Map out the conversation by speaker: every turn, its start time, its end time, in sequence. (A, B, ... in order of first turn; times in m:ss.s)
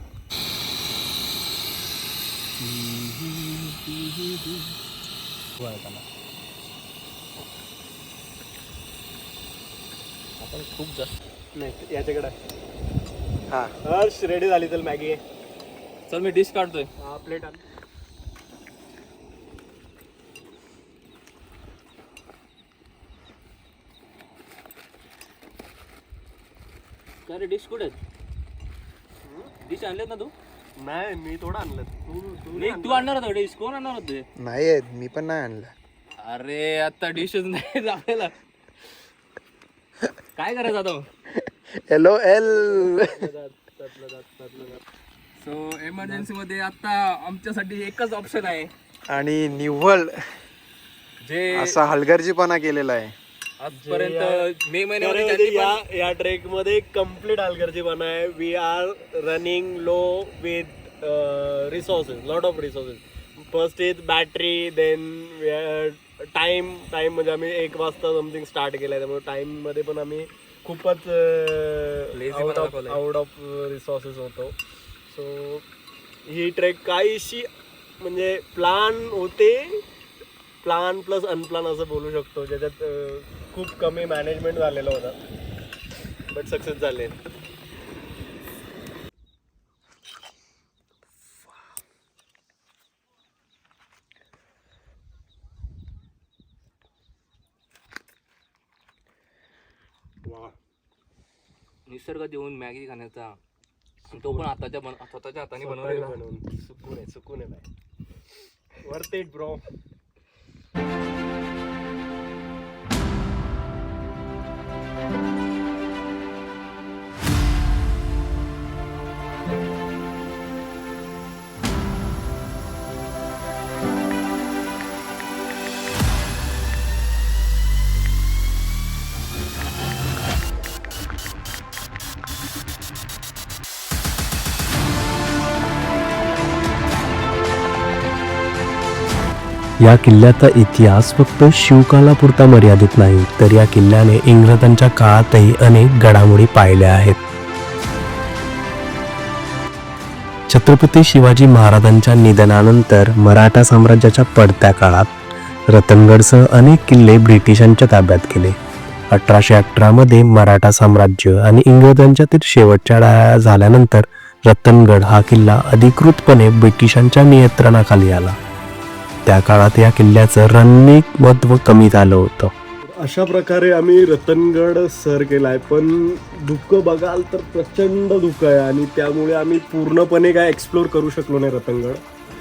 0:02.6-0:04.8 A
0:05.6-0:06.0 A
0:10.4-0:11.2 B
0:11.6-0:12.4 A
0:13.8-0:15.2 A
0:16.1-0:16.9 B
0:17.0-0:17.6 A
0:27.3-0:28.0 B
0:29.2-0:29.5 A
0:29.6-0:30.3 B
0:30.8-0:33.1 A
0:32.5-0:34.2 B
0:34.4-0:35.7 C
0:36.2-0:38.3 B
0:40.4-0:41.1 B
0:41.9-0:43.2 C
0:42.4-0:44.8 A
0:45.4-0:48.7 B
0:49.1-0:50.2 C
0:51.2-0:51.8 B
0:51.5-0:53.2 C
0:53.6-0:55.8 B
0:53.7-1:14.6 A
1:12.1-1:13.0 B
1:15.1-1:15.6 A
1:16.3-1:19.8 A
1:20.6-1:25.2 A
1:26.3-1:27.2 A
1:40.2-1:40.6 A
1:41.9-1:43.4 B
1:44.1-1:44.5 A
1:44.1-1:46.2 B
1:45.6-1:47.7 A
1:48.8-1:49.6 A
2:19.8-2:27.2 D
2:30.5-2:35.2 D
2:35.7-2:38.6 D
2:39.1-2:48.4 D
2:49.3-2:52.5 D
2:52.8-3:02.0 A